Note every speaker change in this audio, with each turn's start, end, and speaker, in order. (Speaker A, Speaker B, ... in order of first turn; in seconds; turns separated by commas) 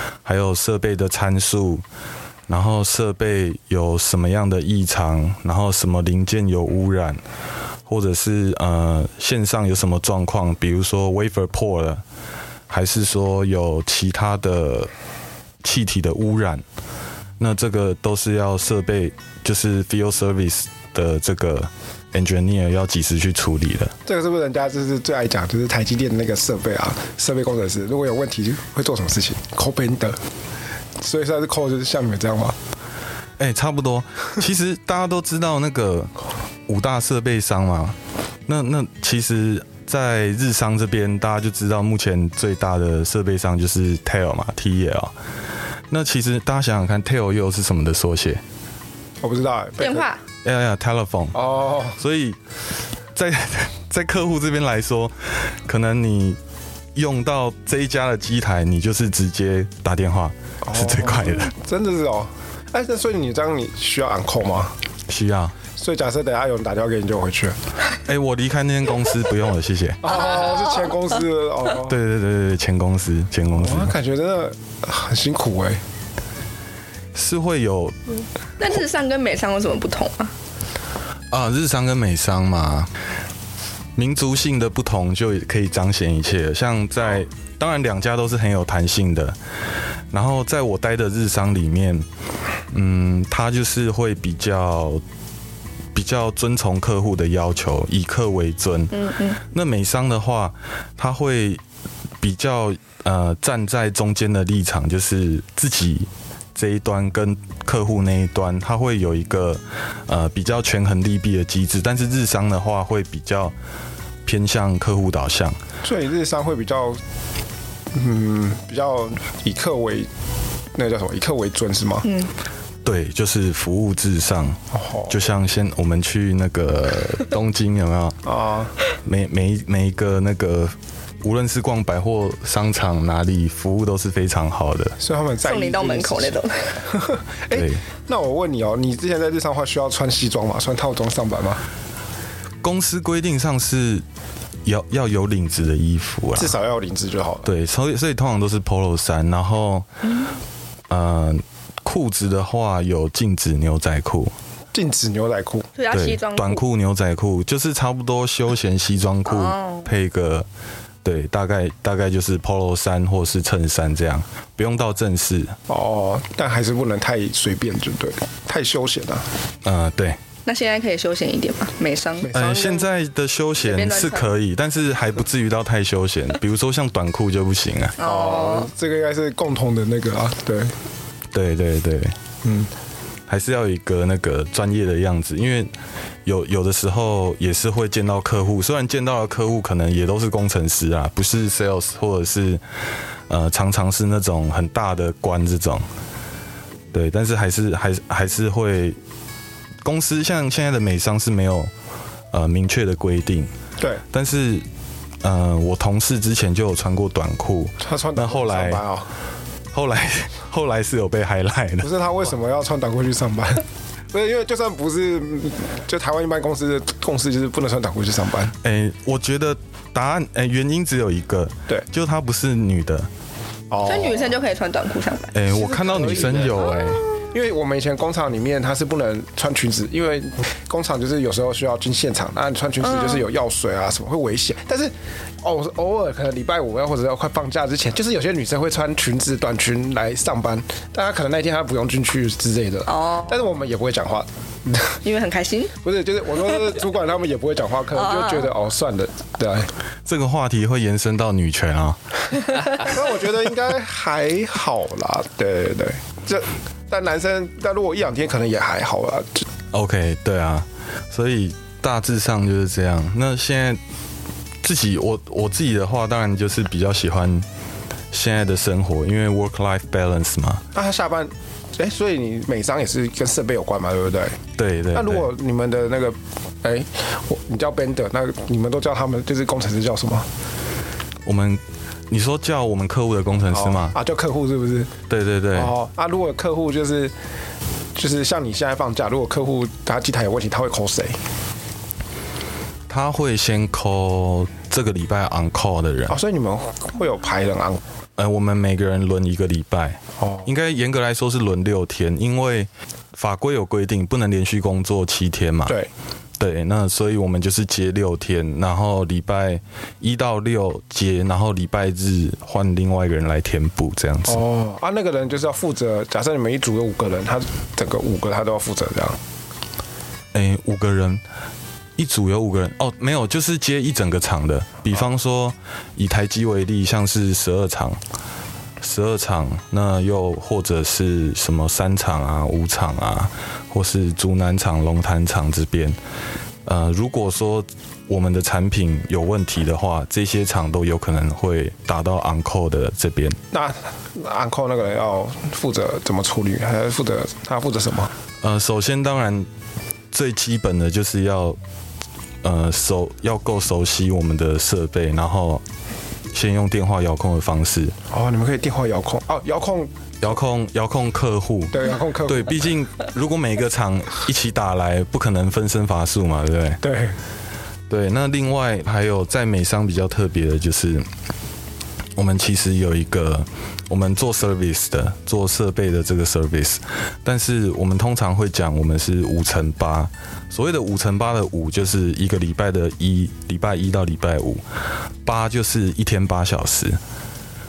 Speaker A: 0.2-1.8, Speaker A: 2.5-7.2, Speaker A: 7.9-12.0, Speaker A: 12.7-14.9, Speaker A: 15.6-16.6, Speaker A: 17.4-23.9, Speaker B: 24.1-30.2, Speaker B: 31.0-32.6, Speaker A: 33.4-36.1, Speaker A: 36.7-38.0, Speaker A: 38.5-45.1, Speaker A: 45.9-48.4, Speaker B: 49.2-50.1, Speaker C: 49.8-50.2, Speaker A: 50.4-51.4, Speaker B: 51.3-52.0, Speaker A: 52.0-52.4, Speaker A: 53.1-56.4, Speaker A: 56.9-61.5, Speaker B: 60.6-64.7, Speaker A: 65.1-65.5, Speaker B: 65.8-67.6, Speaker A: 68.0-70.2, Speaker B: 70.0-72.0, Speaker A: 71.8-73.9, Speaker B: 73.5-75.8, Speaker A: 77.1-78.0, Speaker C: 78.6-80.3, Speaker A: 81.3-82.9, Speaker A: 84.0-89.3, Speaker A: 90.1-92.0, Speaker A: 92.7-95.0, Speaker A: 95.9-101.6, Speaker C: 98.9-99.4, Speaker A: 102.2-113.5, Speaker A: 114.2-115.6, Speaker B: 115.8-117.0, Speaker B: 117.9-120.1, Speaker B: 120.7-122.1, Speaker A: 122.8-128.2, Speaker B: 124.7-125.1, Speaker B: 128.2-128.7, Speaker A: 129.0-134.9, Speaker B: 135.0-141.6, Speaker C: 135.4-136.8, Speaker A: 137.5-137.8, Speaker A: 142.6-144.0, Speaker A: 144.6-146.5, Speaker B: 146.3-147.5, Speaker A: 147.4-149.8, Speaker A: 150.9-154.3, Speaker B: 154.7-155.7, Speaker C: 155.8-156.6, Speaker A: 155.9-160.5, Speaker C: 159.3-159.8, Speaker A: 161.0-165.6, Speaker B: 165.7-169.3, Speaker A: 169.6-170.2, Speaker C: 170.4-172.4, Speaker B: 172.2-172.8, Speaker A: 172.3-177.9, Speaker C: 173.6-174.3, Speaker C: 178.0-178.7, Speaker B: 178.0-180.7, Speaker A: 181.3-182.1, Speaker B: 182.4-182.7, Speaker A: 183.3-185.7, Speaker A: 186.2-192.6, Speaker A: 193.3-195.8, Speaker A: 196.9-199.0, Speaker A: 199.8-201.7, Speaker A: 202.3-203.5, Speaker A: 204.1-204.6, Speaker A: 205.2-208.8, Speaker B: 207.8-209.1, Speaker A: 209.7-211.9, Speaker B: 211.8-218.5, Speaker A: 218.6-223.1, Speaker B: 223.7-224.3, Speaker C: 223.8-225.4, Speaker A: 225.3-227.0, Speaker B: 225.5-245.0, Speaker C: 232.9-233.2, Speaker C: 242.9-243.3, Speaker C: 245.0-245.7, Speaker B: 245.8-249.7, Speaker C: 248.0-248.4, Speaker A: 250.1-252.0, Speaker B: 252.8-259.5, Speaker A: 259.7-263.8, Speaker A: 264.6-267.4, Speaker A: 268.1-270.6, Speaker B: 270.7-274.4, Speaker A: 274.6-275.3, Speaker B: 274.9-280.3, Speaker A: 281.2-283.9, Speaker B: 283.5-284.9, Speaker A: 285.1-285.7, Speaker B: 285.5-287.1, Speaker B: 287.9-291.2, Speaker A: 292.9-296.1, Speaker B: 296.1-297.8, Speaker A: 298.2-305.8, Speaker B: 300.2-300.4, Speaker A: 306.4-314.4, Speaker B: 314.2-319.2, Speaker A: 320.3-321.2, Speaker A: 322.0-328.0, Speaker A: 328.8-336.0, Speaker A: 336.6-343.4, Speaker B: 343.5-348.1, Speaker A: 348.4-349.5, Speaker A: 350.1-351.6, Speaker A: 352.4-355.6, Speaker A: 356.3-357.9, Speaker B: 358.1-359.9, Speaker A: 360.2-366.8, Speaker B: 361.7-362.6, Speaker B: 366.8-367.2, Speaker A: 367.9-371.1, Speaker A: 372.1-384.6, Speaker A: 385.2-387.0